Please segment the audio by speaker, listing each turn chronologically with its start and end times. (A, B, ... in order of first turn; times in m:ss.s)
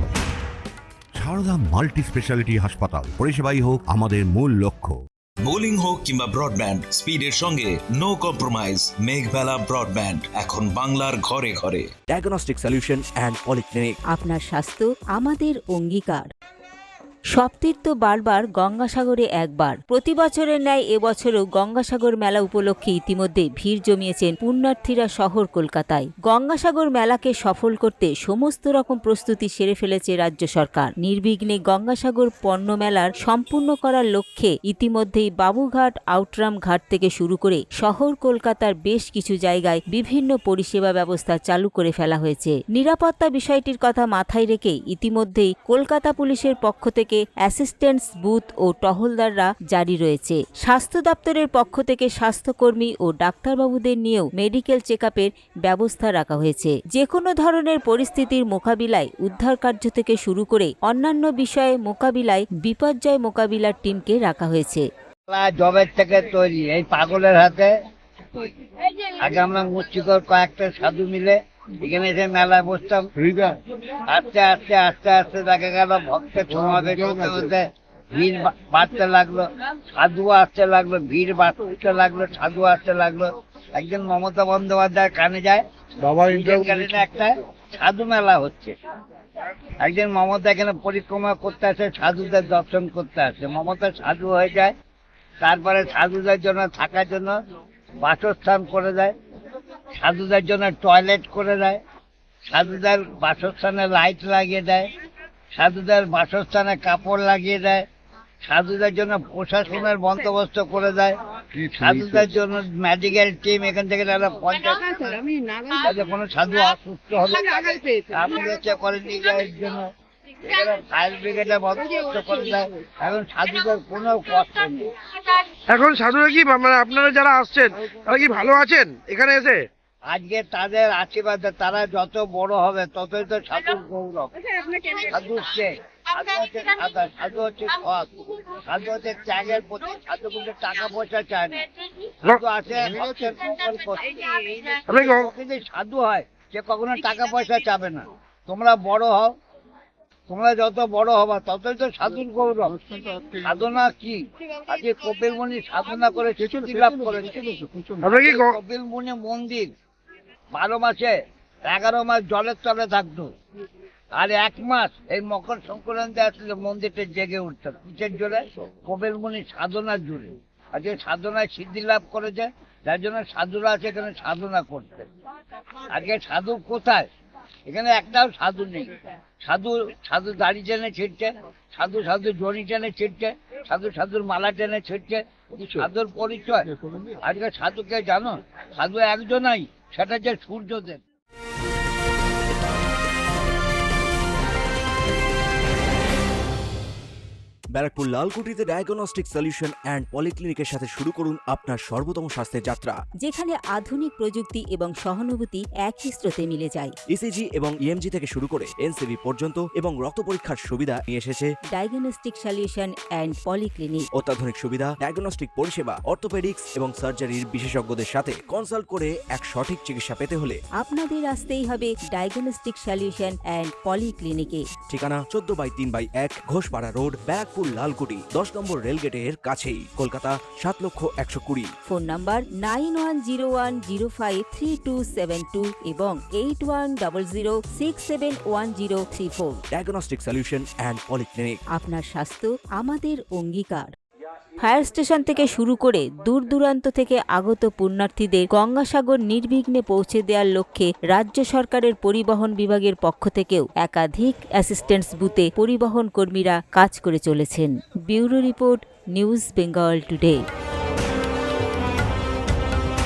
0:01.2-0:05.0 A
0:05.5-0:11.9 B
0:12.1-0:13.9 C
0:14.1-0:16.3 D
0:17.3-1:04.9 D
1:05.3-1:07.7 E
1:09.1-1:13.1 E
1:14.1-1:17.6 E
1:18.2-1:25.6 E
1:26.1-1:28.7 E
1:29.8-1:34.7 E
1:35.4-1:37.3 E
1:38.0-1:39.1 E
1:40.0-1:41.8 E
1:42.5-1:44.9 E
1:45.5-1:47.8 E
1:48.4-1:59.9 E
2:00.4-2:04.9 E
2:05.7-2:09.7 F
2:10.1-2:14.3 E
2:14.9-2:21.6 E
2:22.2-2:29.3 E
2:30.3-2:32.8 E
2:33.4-2:39.7 E
2:40.5-2:41.1 E
2:41.7-2:43.3 E
2:44.1-2:55.1 E
2:55.9-2:57.0 E
2:57.7-2:58.9 E
2:59.4-3:06.6 E
3:07.2-3:11.0 E
3:17.7-3:23.0 C
3:23.2-3:26.9 D
3:27.1-3:31.5 C
3:31.7-3:34.0 D
3:34.2-3:40.6 C
3:40.8-3:44.6 D
3:44.9-3:51.7 C
3:51.9-3:59.6 D
3:59.7-4:01.6 C
4:01.7-4:03.9 D
4:04.6-4:20.4 D